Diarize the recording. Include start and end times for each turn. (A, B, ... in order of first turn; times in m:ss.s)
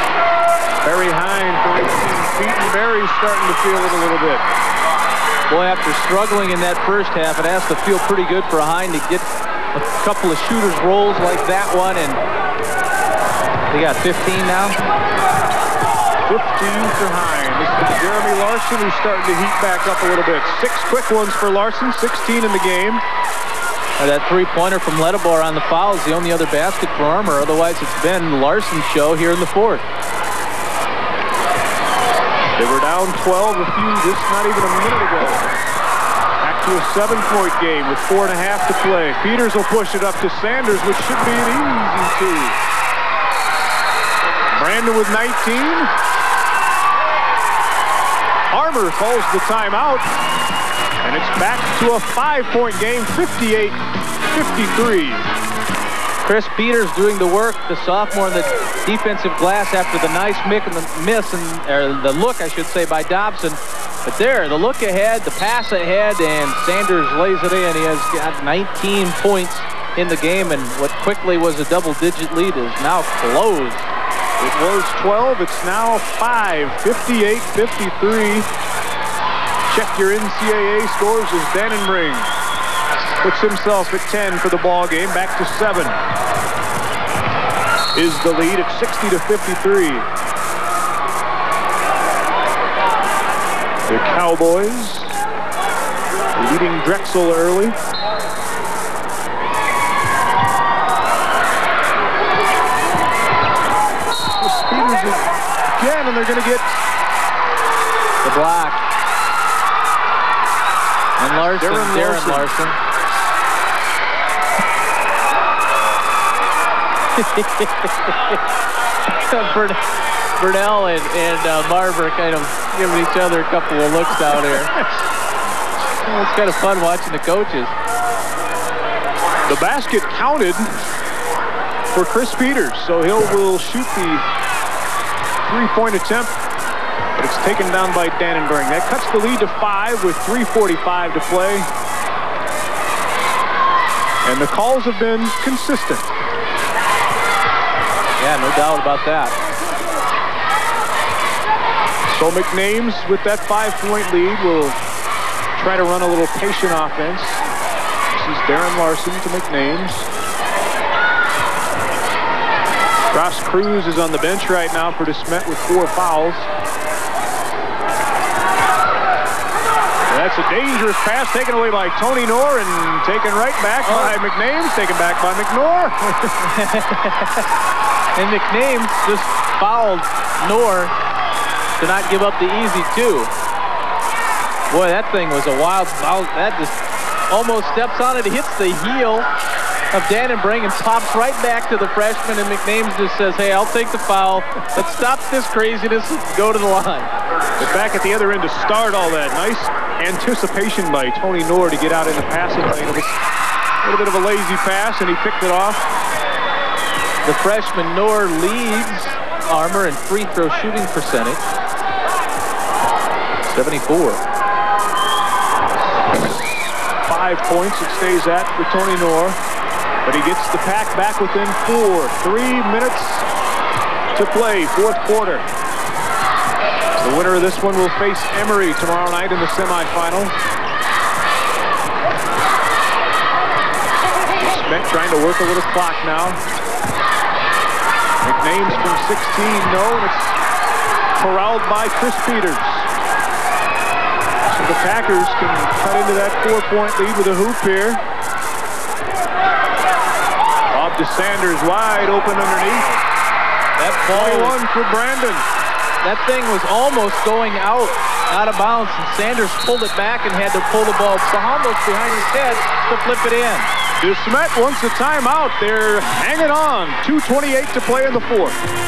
0:00.8-0:04.5 A
0:05.5-0:12.2 B
0:13.7-0:14.8 B
0:16.3-0:23.0 A
0:24.0-0:29.8 B
0:32.6-0:35.6 A
0:36.4-0:42.6 A
0:44.6-0:45.9 A
0:48.5-0:50.1 A
0:51.0-0:55.3 A
0:56.2-1:13.9 B
1:14.4-1:18.5 A
1:19.7-1:22.3 A
1:23.2-1:26.0 A
1:27.9-1:30.1 A
1:33.9-1:35.1 A
1:36.4-1:37.8 A
1:44.4-1:46.8 A
1:48.2-1:48.8 B
1:51.2-1:52.8 B
1:51.6-1:52.5 A
1:57.2-1:58.4 B
1:59.2-1:59.8 B
2:00.4-2:04.8 B
2:06.0-2:07.8 B
2:09.5-2:10.9 A
2:11.9-2:14.3 A
2:15.4-2:16.3 A
2:17.2-2:21.7 A
2:24.2-2:26.1 A
2:28.2-2:29.4 B
2:32.1-2:34.8 A
2:35.6-2:37.4 A
2:38.1-2:40.1 A
2:43.1-2:46.5 A
2:50.1-2:56.4 A
2:53.8-2:54.2 B
2:56.4-2:57.4 B
2:58.2-3:00.9 B
3:01.8-3:03.3 B
3:04.7-3:06.8 B
3:07.3-3:09.3 B
3:09.9-3:17.1 B
3:17.6-3:23.2 A
3:23.8-3:25.9 A
3:27.2-3:31.4 B
3:33.4-3:34.2 B
3:36.1-3:39.4 A
3:40.0-3:43.3 A
3:44.1-3:45.5 A
3:47.0-3:50.3 A
3:54.4-3:56.4 A
3:58.2-4:00.4 A
4:01.2-4:02.9 A
4:04.5-4:08.0 A
4:10.7-4:13.0 A
4:13.8-4:14.6 B
4:14.1-4:15.4 A
4:16.0-4:23.7 B
4:24.0-4:28.6 A